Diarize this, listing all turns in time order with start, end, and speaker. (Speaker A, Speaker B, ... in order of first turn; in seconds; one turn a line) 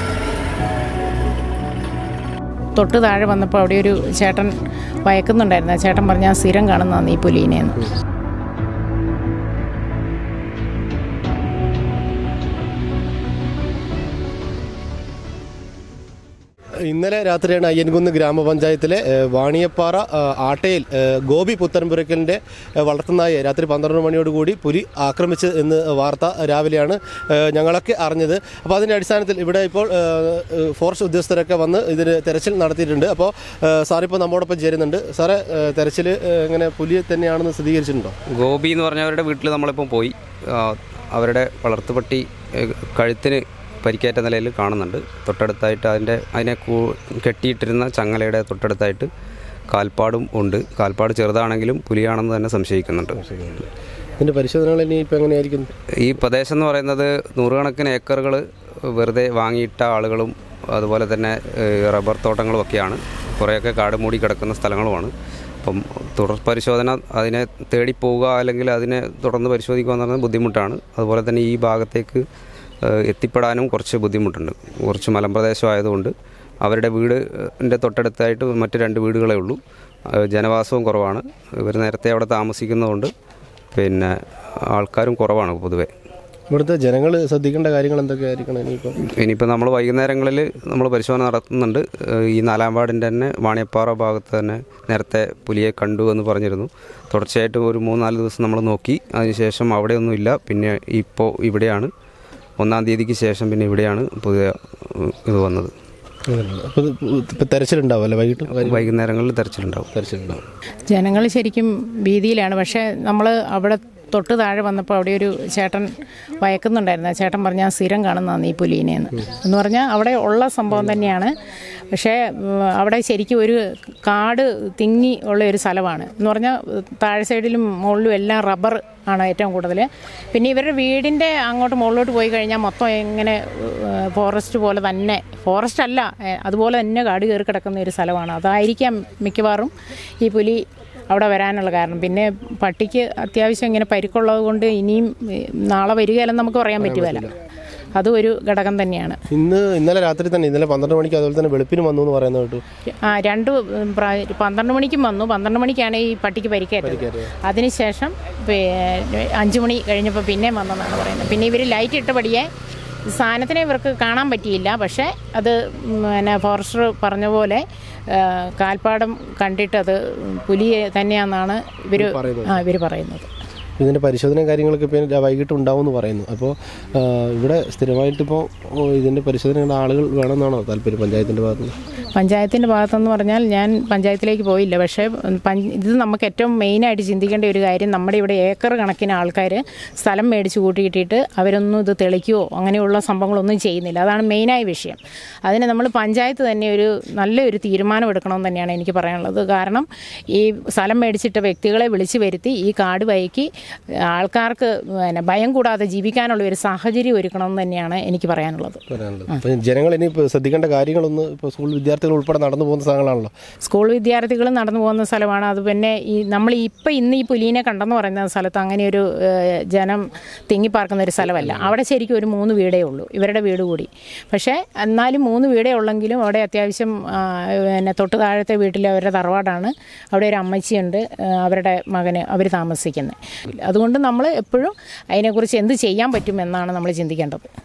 Speaker A: 2.8-4.5
Speaker A: 5.0-7.9
Speaker B: 16.9-38.2
Speaker C: 38.3-49.1
Speaker C: 49.7-53.5
Speaker B: 54.2-55.7
Speaker C: 56.0-72.2
Speaker C: 72.8-79.6
Speaker C: 80.2-83.1
Speaker C: 83.7-84.1
Speaker C: 84.7-85.9
Speaker B: 86.5-89.0
Speaker C: 89.0-101.9
Speaker C: 102.6-105.7
Speaker B: 106.3-108.9
Speaker C: 108.6-109.9
Speaker B: 109.9-110.4
Speaker A: 110.9-121.3
Speaker A: 121.9-147.3
Speaker B: 146.8-147.3
Speaker A: 147.9-149.2
Speaker B: 149.3-152.6
Speaker A: 153.0-162.5
Speaker B: 156.8-157.3
Speaker A: 163.1-173.3
Speaker B: 171.9-172.6
Speaker B: 173.8-181.8
Speaker A: 182.1-203.5
Speaker A: 204.1-208.8
Speaker B: 208.9-213.3
Speaker A: 213.6-237.5
Speaker B: 221.3-221.7